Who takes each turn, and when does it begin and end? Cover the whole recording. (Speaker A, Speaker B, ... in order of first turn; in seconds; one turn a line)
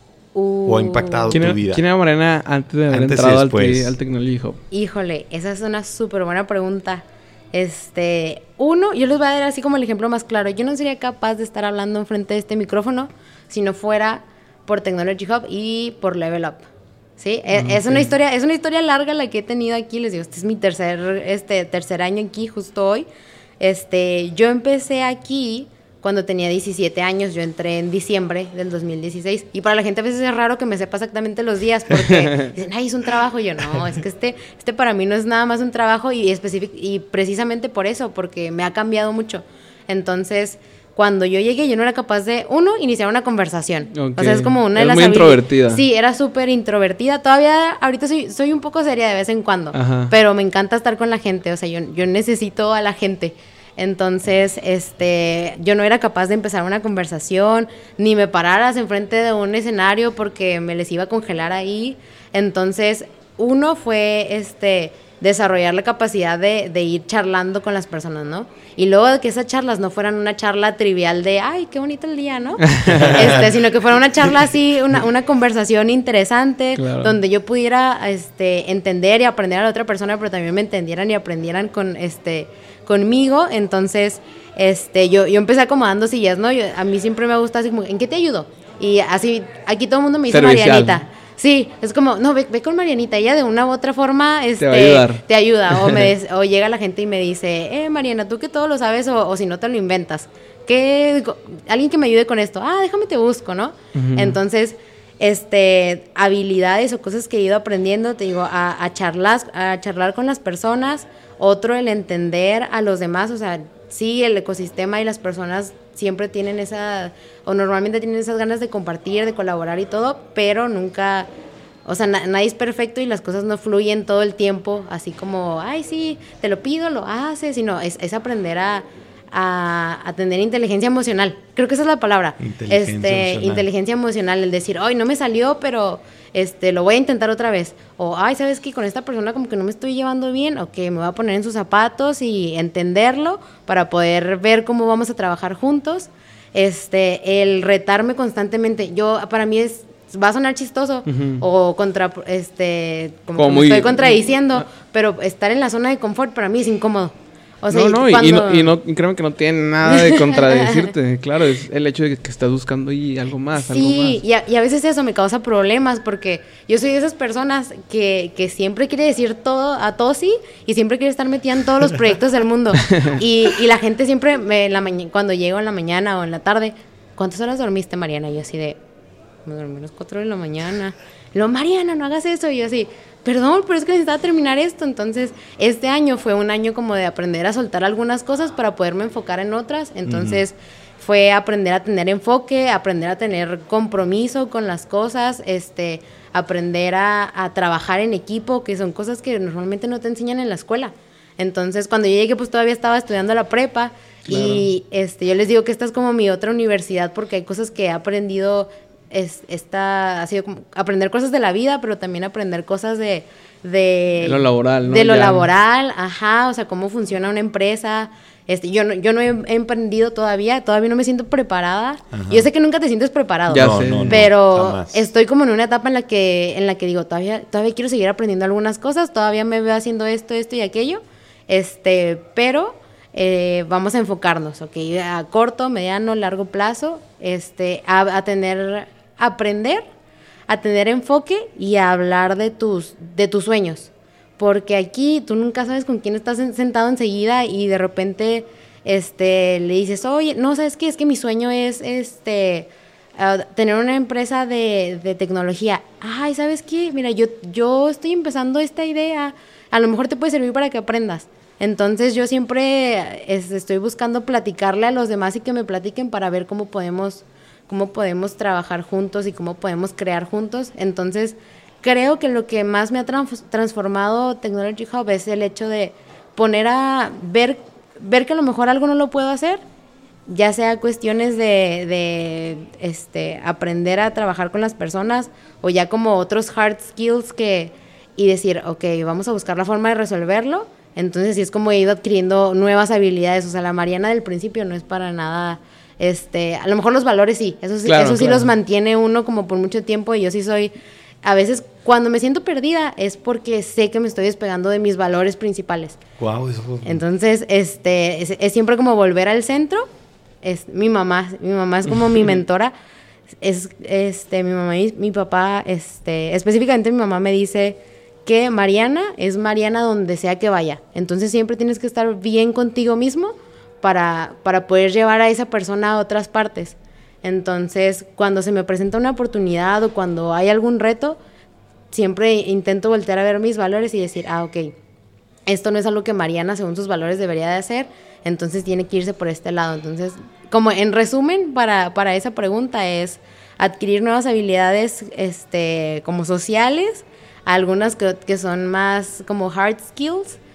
Speaker A: 0.3-1.4
Speaker B: 0.7-1.8
Speaker C: 1.3-4.6
Speaker B: 2.9-3.9
Speaker A: 4.7-16.7
Speaker A: 17.2-23.1
Speaker C: 17.6-18.0
Speaker A: 23.6-121.3
Speaker C: 32.0-32.5
Speaker C: 43.9-45.8
Speaker C: 49.7-50.1
Speaker C: 72.6-73.2
Speaker B: 72.9-73.5
Speaker C: 76.8-77.1
Speaker C: 90.3-91.0
Speaker C: 94.6-96.1
Speaker C: 103.9-104.4
Speaker A: 121.8-158.7
Speaker B: 132.4-133.7
Speaker C: 151.1-151.4
Speaker C: 153.4-154.6
Speaker C: 157.7-164.2
Speaker A: 159.8-160.9
Speaker A: 163.6-178.8
Speaker C: 172.8-173.2
Speaker A: 179.4-239.8
Speaker B: 190.0-190.4
Speaker C: 204.3-204.7
Speaker C: 214.2-215.5
Speaker B: 222.1-222.5
Speaker C: 223.5-224.2
Speaker B: 223.5-225.0
Speaker A: 240.5-279.6
Speaker A: 280.3-300.7
Speaker C: 297.8-298.5
Speaker A: 301.2-306.0
Speaker B: 306.2-307.0
Speaker A: 306.8-309.9
Speaker A: 310.4-312.7
Speaker A: 313.4-331.2
Speaker A: 331.9-334.7
Speaker A: 335.5-350.4